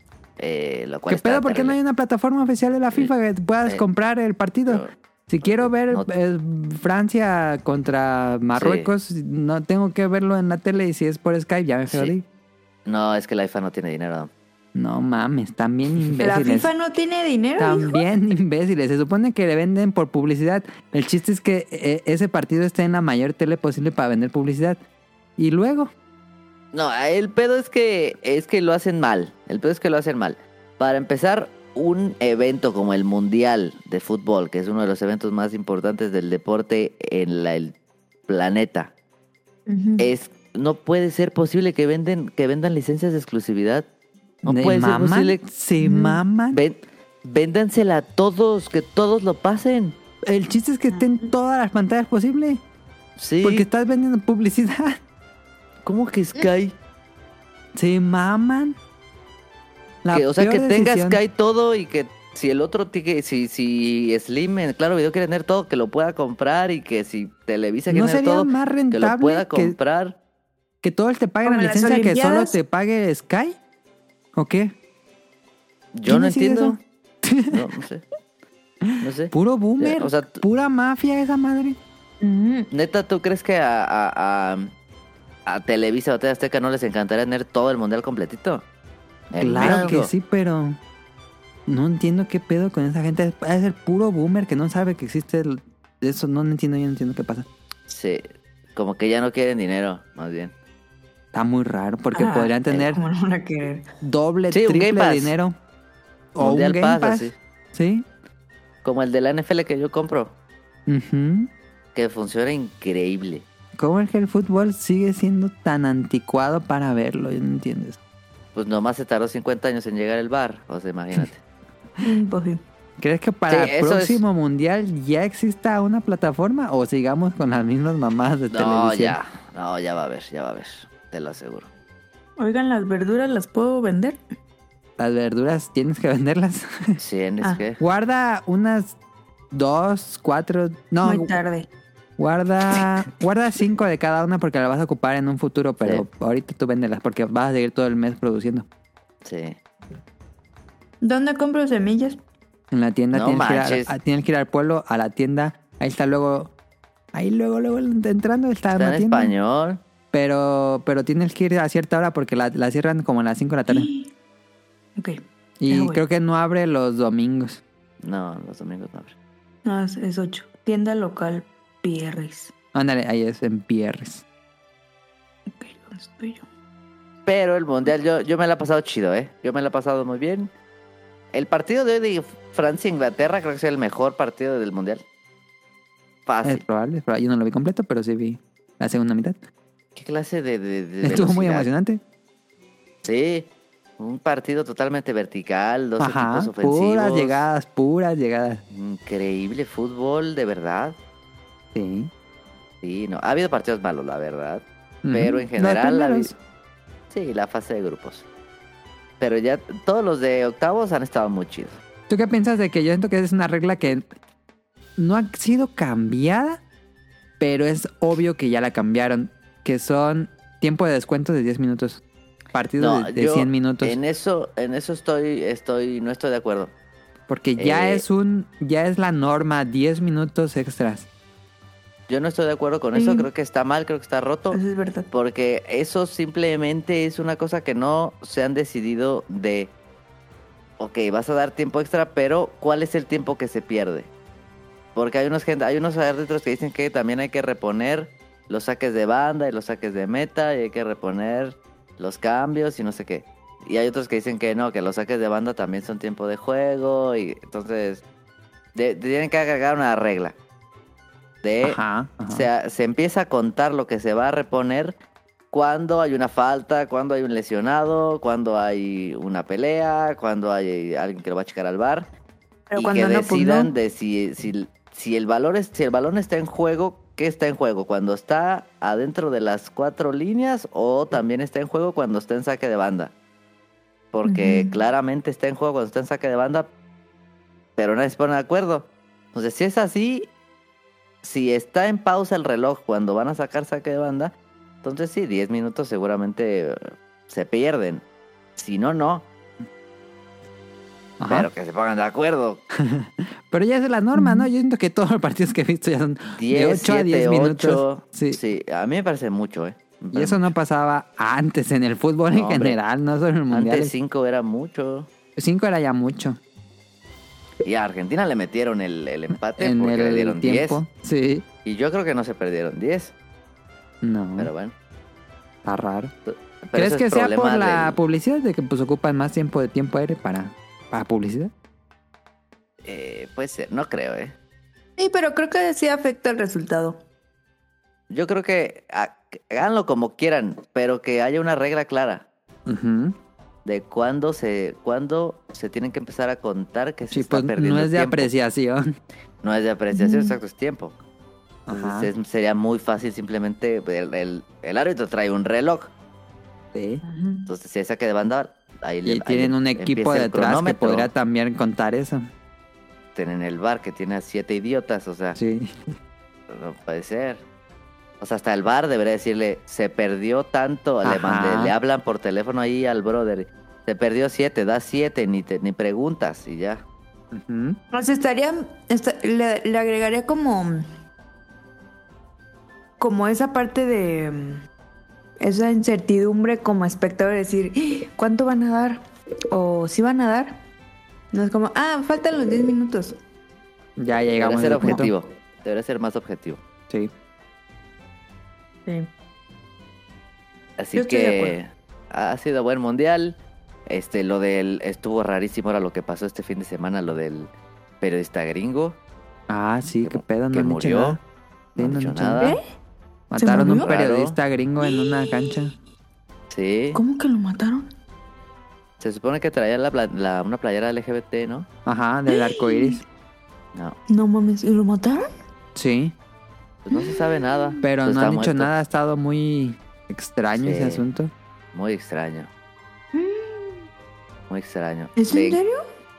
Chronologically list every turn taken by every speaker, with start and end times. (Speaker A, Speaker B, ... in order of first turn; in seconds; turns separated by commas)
Speaker A: 0.4-1.8, Speaker B: 1.1-12.2, Speaker A: 4.7-4.9, Speaker A: 5.4-6.1, Speaker A: 8.5-8.9, Speaker A: 12.9-14.3, Speaker B: 14.8-16.7, Speaker C: 16.2-18.0, Speaker B: 17.6-24.8, Speaker B: 25.4-25.9, Speaker A: 26.7-37.7, Speaker A: 38.3-38.9, Speaker C: 39.7-40.1, Speaker A: 40.0-43.9, Speaker A: 44.4-45.4, Speaker B: 44.5-46.6, Speaker C: 45.8-46.2, Speaker A: 46.5-50.0, Speaker B: 50.2-52.6, Speaker C: 50.9-51.3, Speaker A: 53.2-53.7, Speaker B: 53.4-55.0, Speaker A: 55.9-56.8, Speaker B: 57.8-58.8, Speaker B: 60.0-61.2, Speaker A: 60.1-70.2, Speaker B: 67.9-69.8, Speaker B: 70.8-73.6, Speaker C: 71.5-72.6, Speaker B: 74.3-74.7, Speaker A: 75.9-76.8, Speaker B: 76.1-77.6, Speaker A: 77.5-78.0, Speaker B: 78.8-81.8, Speaker A: 79.0-80.4, Speaker C: 82.2-82.7, Speaker A: 82.7-84.7, Speaker A: 85.5-88.6, Speaker A: 89.3-90.1, Speaker B: 89.4-90.8, Speaker C: 89.6-89.9, Speaker B: 91.7-97.5, Speaker A: 97.9-98.2, Speaker A: 98.8-100.5, Speaker B: 101.3-103.0, Speaker C: 102.1-103.8, Speaker B: 104.0-105.6, Speaker A: 104.5-105.3, Speaker B: 106.3-108.1, Speaker A: 106.4-107.3, Speaker A: 108.8-110.3, Speaker B: 110.9-111.5, Speaker A: 112.0-113.5, Speaker B: 113.8-118.0, Speaker A: 118.5-121.4, Speaker C: 122.0-122.6, Speaker B: 123.0-129.2, Speaker A: 123.5-124.2, Speaker A: 128.5-131.7, Speaker C: 132.4-134.2, Speaker B: 135.0-137.0, Speaker A: 137.0-137.8, Speaker B: 137.8-138.9, Speaker B: 139.5-141.3, Speaker C: 141.0-141.7, Speaker B: 142.2-148.7, Speaker A: 149.2-149.6, Speaker C: 151.0-152.2, Speaker B: 152.7-156.5, Speaker A: 153.1-153.9, Speaker B: 157.1-159.3, Speaker A: 158.8-159.8, Speaker B: 160.1-163.9, Speaker C: 163.7-164.1, Speaker C: 165.0-166.0, Speaker B: 165.6-167.6, Speaker A: 168.0-169.1, Speaker C: 169.7-172.5, Speaker B: 172.7-174.2, Speaker C: 175.5-176.5, Speaker A: 177.3-180.5, Speaker A: 181.3-185.0, Speaker A: 186.3-186.6, Speaker B: 186.4-189.4, Speaker A: 189.9-191.7, Speaker B: 191.0-192.0, Speaker A: 193.0-193.5, Speaker A: 194.0-197.4, Speaker B: 196.0-198.6, Speaker A: 198.7-201.0, Speaker B: 201.7-202.1, Speaker A: 202.8-206.3, Speaker B: 205.0-206.3, Speaker A: 207.1-208.2, Speaker A: 209.2-211.8, Speaker B: 212.1-214.1, Speaker B: 215.0-216.6, Speaker B: 217.4-222.0, Speaker B: 222.5-224.0, Speaker A: 222.8-226.7, Speaker B: 227.3-231.1, Speaker A: 227.6-228.0, Speaker A: 232.1-239.7, Speaker C: 232.9-233.3, Speaker C: 234.5-235.1, Speaker A: 240.8-244.1, Speaker A: 244.9-258.0, Speaker A: 258.8-260.4, Speaker A: 261.4-264.9, Speaker B: 261.6-262.5, Speaker A: 265.5-272.1, Speaker C: 272.7-273.7, Speaker A: 272.8-283.1, Speaker A: 284.1-286.7, Speaker C: 284.3-284.8, Speaker A: 287.8-290.3, Speaker A: 291.2-298.0, Speaker A: 298.6-299.3, Speaker B: 301.2-301.5, Speaker A: 301.2-302.6, Speaker B: 302.8-308.4, Speaker C: 304.1-304.5, Speaker A: 306.4-310.5, Speaker B: 310.1-313.9, Speaker A: 312.3-312.8, Speaker A: 313.5-315.1, Speaker B: 315.4-316.4, Speaker A: 317.6-320.8, Speaker B: 319.6-321.5, Speaker A: 321.6-323.1, Speaker B: 324.0-324.5, Speaker A: 324.4-324.7, Speaker B: 325.6-326.1, Speaker A: 326.3-328.0, Speaker B: 326.8-331.5, Speaker A: 332.8-334.4, Speaker C: 335.0-337.0, Speaker A: 338.1-342.2, Speaker B: 342.7-343.2, Speaker A: 343.6-348.3, Speaker B: 347.1-349.0, Speaker A: 349.4-351.0, Speaker C: 349.9-350.4, Speaker B: 351.7-352.1, Speaker A: 351.7-355.9, Speaker B: 356.7-357.0, Speaker C: 357.0-357.5, Speaker A: 357.5-361.1, Speaker B: 359.1-362.3, Speaker A: 363.1-365.4, Speaker B: 365.4-365.8, Speaker A: 366.5-367.4, Speaker A: 368.2-376.8, Speaker B: 371.0-371.7, Speaker B: 377.3-377.8, Speaker C: 377.9-380.9, Speaker C: 383.0-384.6, Speaker C: 385.4-390.6, Speaker C: 391.3-393.2, Speaker B: 394.0-395.1, Speaker A: 394.4-396.6, Speaker A: 400.8-407.5, Speaker C: 400.9-401.6, Speaker A: 408.0-409.0, Speaker B: 409.5-411.2, Speaker A: 410.0-411.2, Speaker A: 411.8-412.6, Speaker B: 411.8-412.5, Speaker B: 413.3-415.7, Speaker C: 413.4-413.9, Speaker A: 413.6-414.4, Speaker C: 414.8-415.7, Speaker A: 416.5-417.0, Speaker C: 416.9-417.9, Speaker A: 419.0-421.7, Speaker B: 421.9-423.0, Speaker C: 422.3-423.0, Speaker C: 424.1-425.3, Speaker B: 425.8-426.1, Speaker A: 426.9-428.7, Speaker C: 426.9-427.8, Speaker B: 427.8-431.3, Speaker A: 430.6-431.0, Speaker A: 431.7-432.5, Speaker C: 433.1-433.9, Speaker A: 434.5-435.6, Speaker C: 435.2-435.9